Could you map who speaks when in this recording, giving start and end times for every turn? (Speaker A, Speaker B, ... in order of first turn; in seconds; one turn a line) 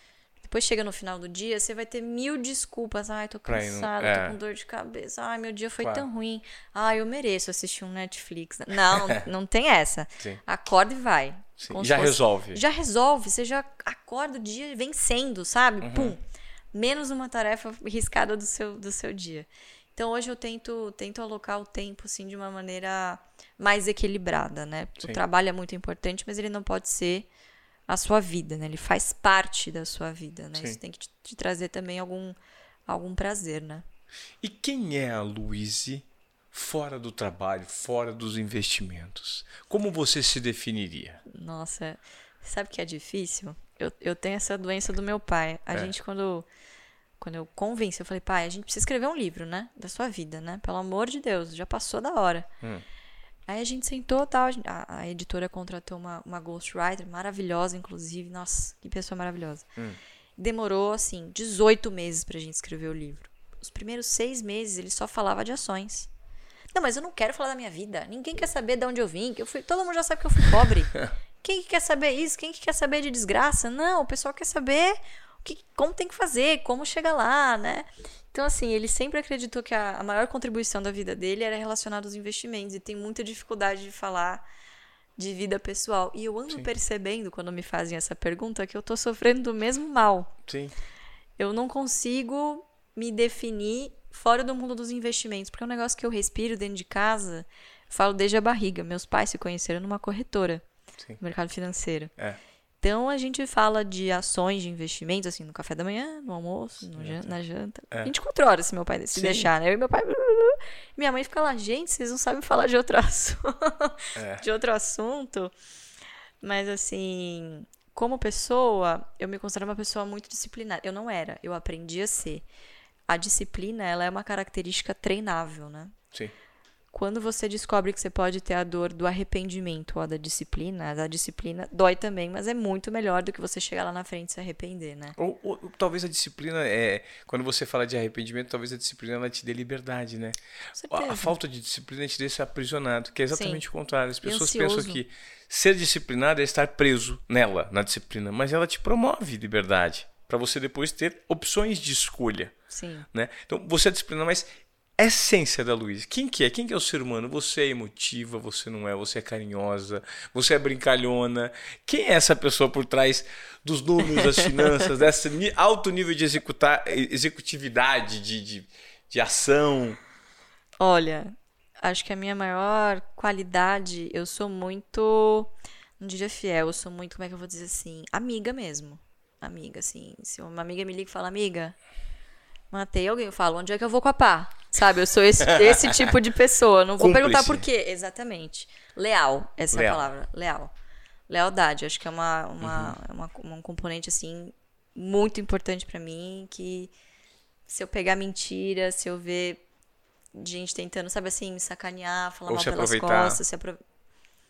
Speaker A: 0.4-16.2
Speaker B: 3.5-4.4
Speaker B: 5.8-6.0
Speaker B: 8.9-9.2
Speaker B: 11.6-12.6
Speaker B: 15.8-16.1
Speaker A: 16.7-27.3
Speaker A: 27.9-33.8
Speaker B: 34.4-41.2
Speaker A: 41.3-46.5
Speaker A: 47.2-52.5
Speaker A: 53.5-59.7
Speaker A: 60.4-66.1
Speaker A: 66.7-84.4
Speaker A: 85.2-90.3
Speaker B: 90.5-90.7
Speaker A: 91.4-100.6
Speaker A: 101.2-102.1
Speaker A: 102.8-115.5
Speaker B: 107.0-107.3
Speaker B: 109.2-109.5
Speaker B: 114.1-114.4
Speaker A: 116.4-122.4
Speaker A: 123.1-125.9
Speaker A: 126.9-135.2
Speaker B: 135.2-140.4
Speaker A: 140.8-141.3
Speaker B: 140.9-152.5
Speaker A: 143.3-143.6
Speaker A: 144.2-145.0
Speaker A: 152.7-153.1
Speaker B: 153.1-170.0
Speaker A: 170.8-181.7
Speaker A: 182.7-190.7
Speaker B: 185.4-186.0
Speaker B: 187.0-187.6
Speaker B: 189.7-190.0
Speaker A: 191.3-196.9
Speaker B: 192.6-192.9
Speaker A: 197.7-199.6
Speaker A: 200.3-203.8
Speaker B: 202.5-203.4